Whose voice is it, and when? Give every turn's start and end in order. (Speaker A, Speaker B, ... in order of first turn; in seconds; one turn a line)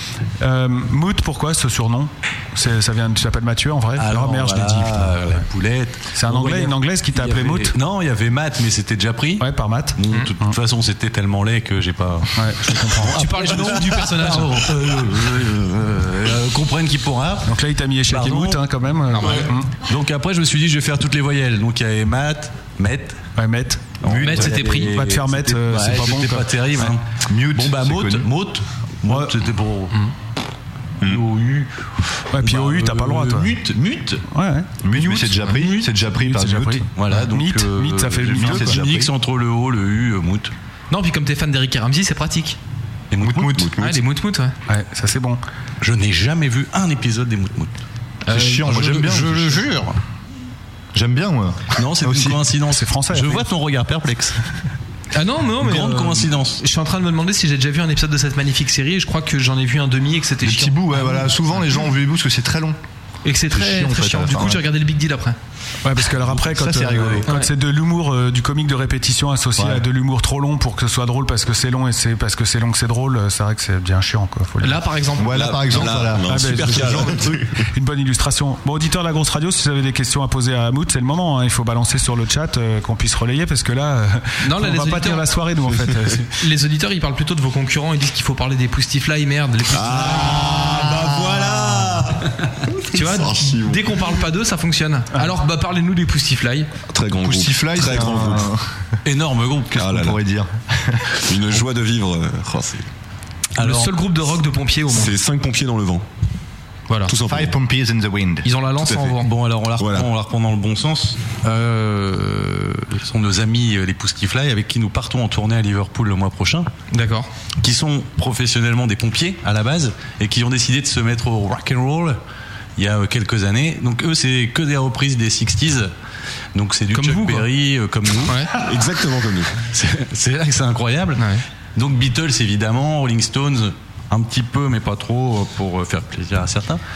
Speaker A: 0.4-5.4
Speaker B: 4.0-17.6
Speaker A: 6.2-7.7
Speaker A: 9.4-10.6
Speaker A: 12.4-13.2
Speaker C: 13.1-14.7
Speaker A: 17.5-19.7
Speaker B: 18.1-18.6
Speaker C: 19.1-19.5
Speaker B: 19.2-23.2
Speaker A: 23.4-27.0
Speaker B: 24.0-29.9
Speaker D: 24.0-24.6
Speaker C: 24.2-24.9
Speaker D: 27.2-28.3
Speaker A: 29.1-29.3
Speaker B: 31.0-34.2
Speaker A: 32.3-33.6
Speaker A: 34.3-35.4
Speaker D: 34.8-36.9
Speaker A: 36.1-38.9
Speaker B: 37.0-40.5
Speaker D: 38.2-39.1
Speaker C: 40.9-42.6
Speaker B: 43.1-43.6
Speaker D: 43.2-43.8
Speaker E: 43.5-43.8
Speaker C: 43.8-44.5
Speaker A: 44.7-45.4
Speaker B: 45.8-47.7
Speaker C: 48.3-49.4
Speaker D: 48.3-49.7
Speaker B: 49.0-49.7
Speaker D: 50.9-52.4
Speaker B: 51.8-54.4
Speaker A: 52.7-53.5
Speaker C: 55.1-61.4
Speaker B: 55.6-56.6
Speaker D: 60.4-62.8
Speaker C: 63.2-65.4
Speaker D: 63.5-64.7
Speaker A: 65.8-74.8
Speaker D: 66.2-67.3
Speaker B: 66.7-67.1
Speaker D: 69.6-69.9
Speaker C: 74.6-75.5
Speaker D: 75.2-77.2
Speaker E: 75.3-77.6
Speaker B: 75.8-77.1
Speaker A: 76.3-86.3
Speaker C: 84.4-85.3
Speaker C: 86.4-90.6
Speaker E: 89.7-92.2
Speaker B: 91.3-91.9
Speaker C: 92.9-96.7
Speaker E: 92.9-94.2
Speaker E: 96.9-98.5
Speaker D: 97.2-98.6
Speaker B: 99.0-100.0
Speaker D: 99.7-101.0
Speaker E: 99.7-100.2
Speaker E: 101.2-102.9
Speaker B: 103.6-104.0
Speaker C: 103.6-105.1
Speaker E: 104.9-106.0
Speaker E: 107.1-107.5
Speaker D: 107.3-108.5
Speaker C: 108.4-109.3
Speaker E: 108.8-109.2
Speaker B: 109.2-116.7
Speaker E: 109.8-110.1
Speaker C: 116.9-117.3
Speaker B: 117.6-122.2
Speaker B: 122.8-125.9
Speaker B: 126.5-128.5
Speaker C: 126.9-127.5
Speaker C: 128.3-128.5
Speaker E: 128.6-129.6
Speaker B: 129.7-131.2
Speaker C: 131.2-131.4
Speaker B: 131.8-136.8